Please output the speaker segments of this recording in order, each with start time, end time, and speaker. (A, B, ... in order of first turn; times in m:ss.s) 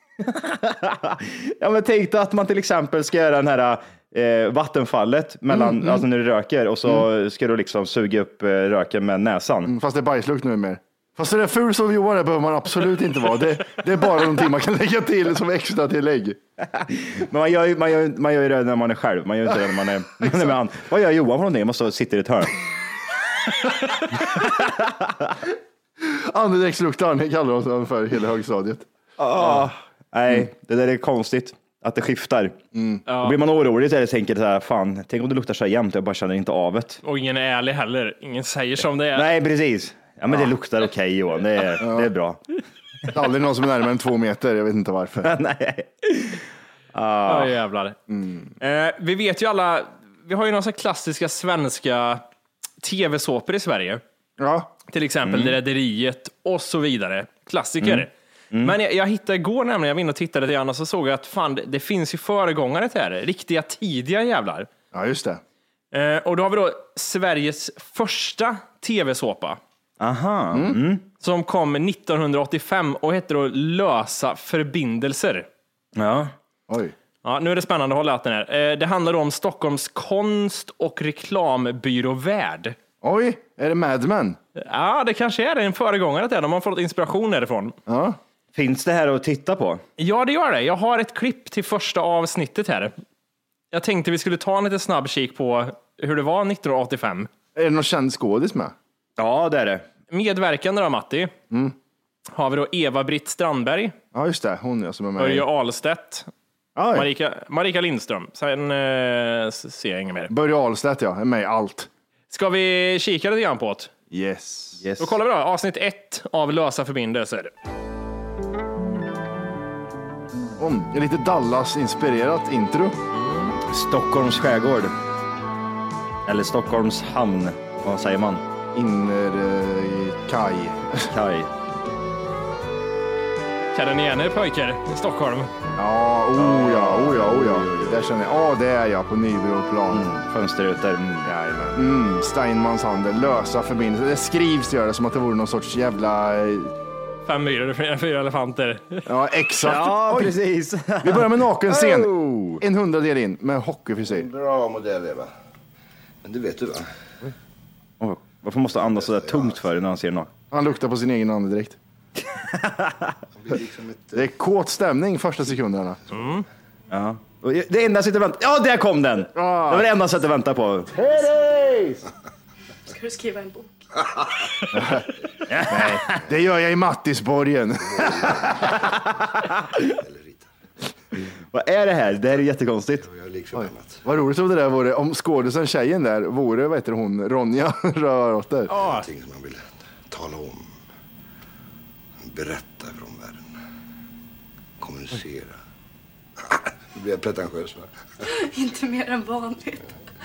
0:00.2-0:09.7 A
0:05.5-0:06.0 B
0:09.6-0:16.4 B
0:16.6-0:22.6 A
0:24.2-0:25.3 A
0:26.0-0:28.9 B
0:29.2-0:32.6 A
0:32.7-0:33.0 B
0:33.1-0:33.4 C
0:33.2-0:37.0 A
0:37.0-0:39.2 C
0:39.1-0:42.4 A
0:41.8-0:42.1 B
0:43.1-0:45.3 B
0:45.2-0:47.5 A
0:47.2-0:48.0 C
0:48.1-0:48.5 B
0:48.6-0:52.2 C
0:52.8-0:54.0 C
0:54.4-0:54.7 B
0:54.9-0:58.1 C
0:55.2-0:55.5 A
0:57.8-0:58.7 A
0:58.6-1:04.7 C
1:04.9-1:05.4 B
1:05.9-1:09.6 C
1:10.0-1:11.0 A
1:10.5-1:10.8 B
1:11.2-1:15.5 C
1:16.0-1:16.3 A
1:16.7-1:16.9 B
1:17.2-1:22.8 C
1:23.0-1:24.4 B
1:24.6-1:27.8 C
1:27.9-1:28.2 B
1:28.5-1:29.8 A
1:30.0-1:32.9 C
1:33.7-1:37.3 C
1:37.5-1:38.7 B
1:39.2-1:39.8 A
1:40.1-1:41.3 C
1:42.3-1:43.9 C
1:44.1-1:45.4 B
1:45.2-1:46.3 C
1:46.8-1:47.1 B
1:46.9-1:50.3 C
1:50.3-1:51.9 B
1:52.3-1:53.9 C
1:54.1-1:54.8 B
1:54.8-1:55.2 A
1:55.0-1:57.5 C
2:00.6-2:03.0 B
2:03.1-2:03.5 C
2:03.7-2:04.9 A
2:06.2-2:08.4 A
2:08.7-2:11.1 B
2:11.1-2:11.5 A
2:13.7-2:15.5 C
2:15.8-2:20.1 B
2:16.4-2:18.1 A
2:19.9-2:21.3 A
2:21.2-2:26.7 B
2:27.2-2:29.0 C
2:29.1-2:30.3 B
2:29.6-2:32.6 A
2:31.0-2:34.3 B
2:34.1-2:35.3 D
2:36.2-2:37.3 D
2:38.0-2:40.3 A
2:38.8-2:39.6 D
2:40.5-2:41.8 B
2:42.4-2:43.1 A
2:43.4-2:44.2 D
2:44.1-2:46.0 B
2:46.1-2:46.4 C
2:46.9-2:51.0 A
2:49.4-2:49.9 B
2:51.1-2:51.8 B
2:52.9-2:53.7 E
2:54.7-2:55.0 B
2:55.5-2:56.2 A
2:55.7-2:58.5 B
2:57.9-2:58.9 D
3:00.0-3:00.5 D
3:01.5-3:03.0 A
3:03.0-3:04.0 D
3:03.5-3:08.7 B
3:08.7-3:09.1 C
3:08.8-3:10.7 D
3:12.2-3:13.5 D
3:14.8-3:15.6 D
3:16.5-3:17.9 D
3:18.3-3:19.8 E